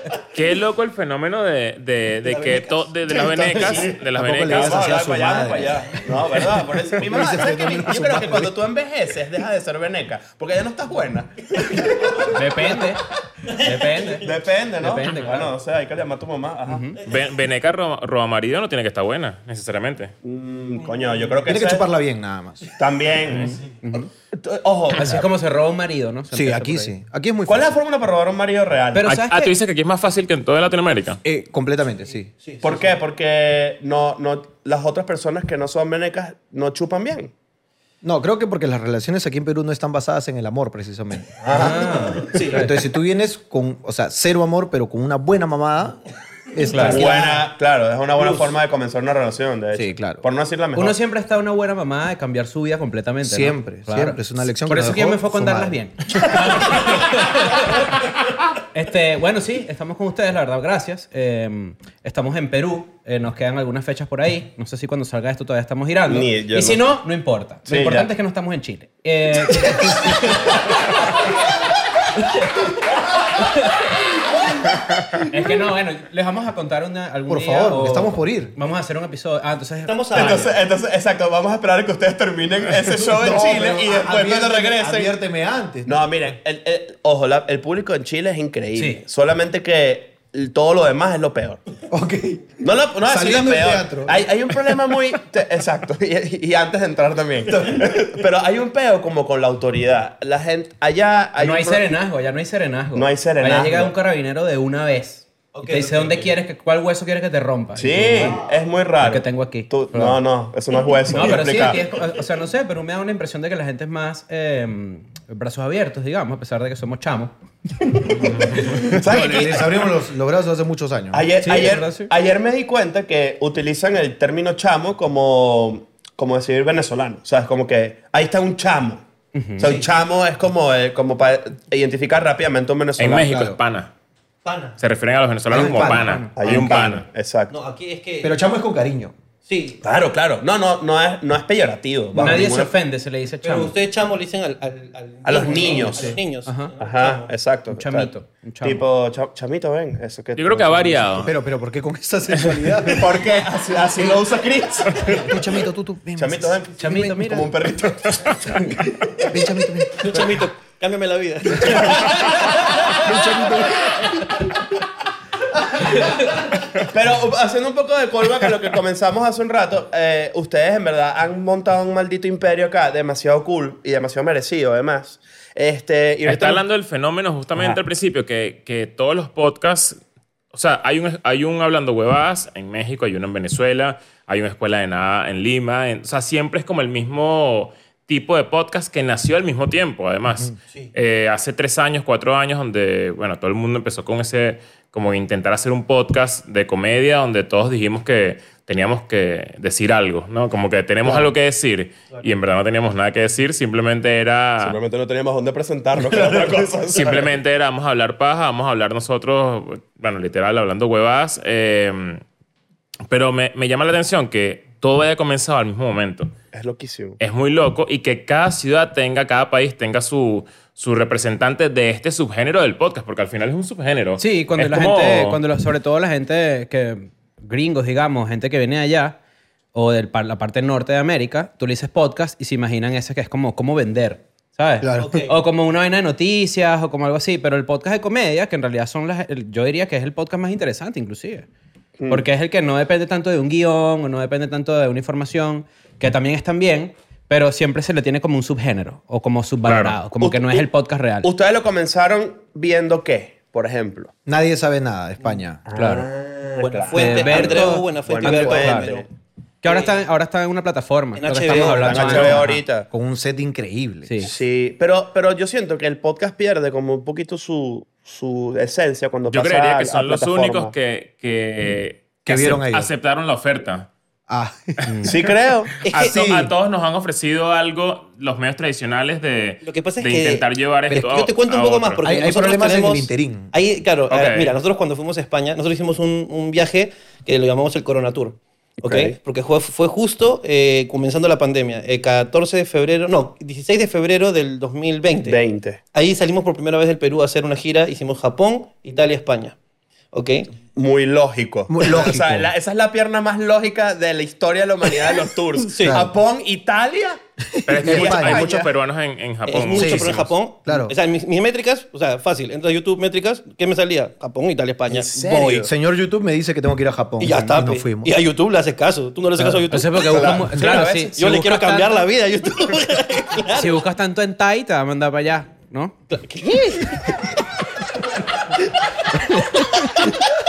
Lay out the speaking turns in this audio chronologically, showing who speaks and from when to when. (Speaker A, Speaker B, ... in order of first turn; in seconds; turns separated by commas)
Speaker A: 0.3-4.9, Speaker B: 2.3-2.8, Speaker C: 3.1-12.7, Speaker D: 4.2-6.0, Speaker D: 7.0-8.6, Speaker E: 12.3-15.5, Speaker C: 14.2-16.9, Speaker E: 16.7-16.9, Speaker A: 17.0-20.1, Speaker C: 20.2-21.8, Speaker D: 21.4-22.7, Speaker C: 22.7-23.6, Speaker E: 23.4-24.1, Speaker C: 24.3-25.3, Speaker E: 24.9-26.9, Speaker D: 26.3-27.7, Speaker C: 27.5-29.1, Speaker E: 28.9-29.5, Speaker A: 29.1-31.2, Speaker D: 31.2-32.3, Speaker B: 32.4-32.7, Speaker C: 32.6-37.3, Speaker D: 38.0-46.0, Speaker C: 41.4-42.4, Speaker E: 41.5-42.7, Speaker B: 41.9-42.6, Speaker D: 46.5-47.1, Speaker E: 46.7-47.1, Speaker B: 46.7-47.4, Speaker C: 46.8-51.0, Speaker D: 49.7-50.2, Speaker E: 50.7-57.9, Speaker D: 53.2-55.8, Speaker E: 58.7-71.2, Speaker C: 66.0-66.9, Speaker C: 67.7-68.1, Speaker D: 69.6-69.9, Speaker E: 72.1-72.7, Speaker E: 73.4-74.0, Speaker E: 75.2-80.5, Speaker D: 77.3-78.5, Speaker B: 79.8-80.5, Speaker C: 80.1-85.1, Speaker D: 83.0-85.9, Speaker C: 85.8-91.6, Speaker E: 88.8-89.0, Speaker D: 91.9-94.3, Speaker C: 92.6-101.9, Speaker E: 101.4-108.4, Speaker C: 102.9-103.9, Speaker B: 105.5-106.3, Speaker C: 107.7-111.9, Speaker E: 109.0-110.2, Speaker E: 111.1-117.3, Speaker C: 118.1-119.9, Speaker E: 118.3-118.9, Speaker D: 118.7-121.2, Speaker C: 121.1-129.0, Speaker E: 121.4-122.1, Speaker E: 129.3-129.7, Speaker C: 129.6-133.3, Speaker B: 129.6-129.9, Speaker A: 133.0-133.9, Speaker D: 133.2-133.6, Speaker B: 134.4-134.8, Speaker A: 134.8-137.0, Speaker D: 135.5-136.2, Speaker E: 135.6-136.4, Speaker C: 136.3-137.5, Speaker B: 137.5-138.3, Speaker D: 138.2-139.1, Speaker B: 139.5-139.8, Speaker C: 139.8-142.8, Speaker E: 142.1-143.7, Speaker B: 143.4-147.3, Speaker C: 145.2-146.2, Speaker E: 146.4-146.7, Speaker C: 146.8-151.3, Speaker E: 147.7-148.8, Speaker A: 150.3-151.3, Speaker D: 151.2-153.2, Speaker C: 152.8-155.4, Speaker D: 155.2-157.5, Speaker C: 156.2-159.3, Speaker E: 156.8-157.5, Speaker D: 159.2-160.4, Speaker B: 160.0-164.5, Speaker D: 161.6-162.0, Speaker D: 163.0-164.2, Speaker C: 166.8-176.6, Speaker A: 176.2-180.0, Speaker A: 180.5-204.8, Speaker C: 201.0-201.3, Speaker C: 204.6-207.3, Speaker A: 206.9-212.2, Speaker A: 213.1-216.3, Speaker C: 216.5-217.2, Speaker A: 217.2-225.4, Speaker E: 224.2-229.2, Speaker E: 229.7-241.5, Speaker D: 234.8-235.1, Speaker B: 235.0-235.4, Speaker C: 242.0-242.3, Speaker E: 242.1-251.3, Speaker A: 249.6-250.0, Speaker C: 250.2-250.7, Speaker C: 251.2-254.1, Speaker D: 254.2-255.6, Speaker C: 255.7-259.0, Speaker E: 255.7-256.1, Speaker B: 256.6-259.1, Speaker E: 256.9-258.9, Speaker E: 259.6-262.6, Speaker B: 259.6-259.9, Speaker B: 261.1-262.4, Speaker C: 261.5-262.9, Speaker D: 262.0-264.3, Speaker E: 264.1-264.3, Speaker C: 264.2-270.7, Speaker A: 269.3-273.9, Speaker D: 272.2-272.9, Speaker D: 274.3-275.1, Speaker C: 275.0-275.7, Speaker B: 275.8-276.3, Speaker A: 275.9-282.1, Speaker D: 275.9-276.5, Speaker B: 279.6-295.4, Speaker D: 282.0-283.5, Speaker A: 284.1-284.5, Speaker C: 288.8-289.1, Speaker C: 295.2-295.8, Speaker B: 295.9-299.6, Speaker B: 300.1-300.5, Speaker C: 300.7-307.2, Speaker D: 301.7-302.5, Speaker B: 305.7-306.1, Speaker D: 305.8-306.1, Speaker D: 307.5-308.6, Speaker A: 307.6-310.3, Speaker C: 307.8-308.7, Speaker B: 309.4-315.7, Speaker D: 309.7-310.1, Speaker D: 310.6-310.9, Speaker C: 314.9-315.7, Speaker D: 315.6-318.1, Speaker B: 317.2-323.8, Speaker E: 319.6-322.1, Speaker C: 320.1-320.8, Speaker E: 323.5-326.0, Speaker B: 326.1-327.5, Speaker E: 329.1-330.1, Speaker B: 329.5-330.2